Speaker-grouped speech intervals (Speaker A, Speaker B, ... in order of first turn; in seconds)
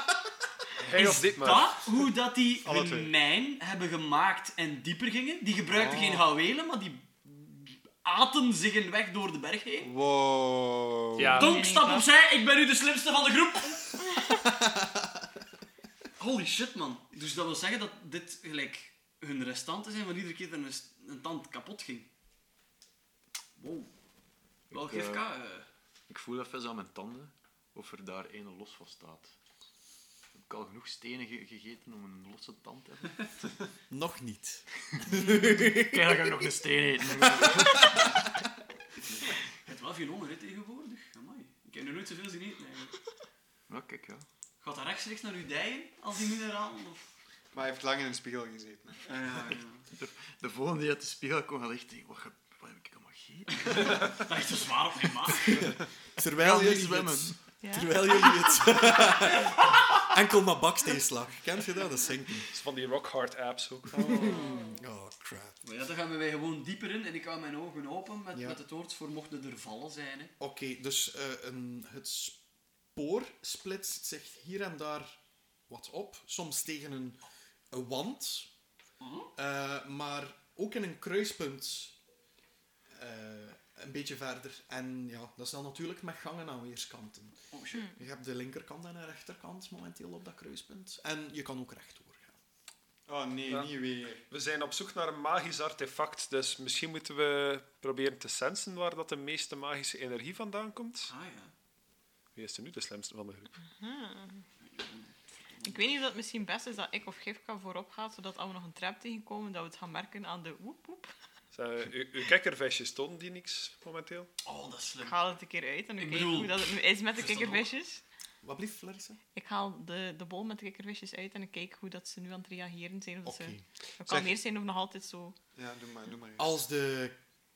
Speaker A: 0.8-1.8, 11.2-11.6, 62.5-64.2, 94.2-101.1, 102.3-103.5, 111.5-114.3
Speaker B: 0.9-9.9, 11.2-14.0, 16.2-22.1, 23.6-23.9, 24.7-25.7, 39.6-43.0, 44.6-47.1, 49.0-49.9, 53.6-55.7, 65.6-70.3, 79.0-79.3, 87.5-87.9, 101.1-101.5, 104.7-105.9, 114.4-115.3, 116.0-117.7
Speaker C: 2.6-3.1, 5.7-6.3, 9.8-11.4, 47.5-49.0, 93.1-94.2, 124.0-124.3, 125.5-126.6
Speaker D: 11.4-12.1, 57.6-58.6, 64.3-64.7, 103.8-104.4, 105.6-111.1, 115.0-118.0, 119.3-125.3
Speaker E: 14.4-15.1, 33.9-36.3, 37.1-38.1, 55.5-62.5, 63.9-65.6, 70.4-72.4, 72.9-77.2, 77.7-78.5, 79.3-81.9, 82.9-92.3, 118.4-119.2, 123.2-123.7, 126.4-127.1
Speaker F: 24.7-25.3, 26.1-29.3, 30.3-33.3, 35.8-38.0, 43.7-44.2, 49.9-54.1, 56.3-57.4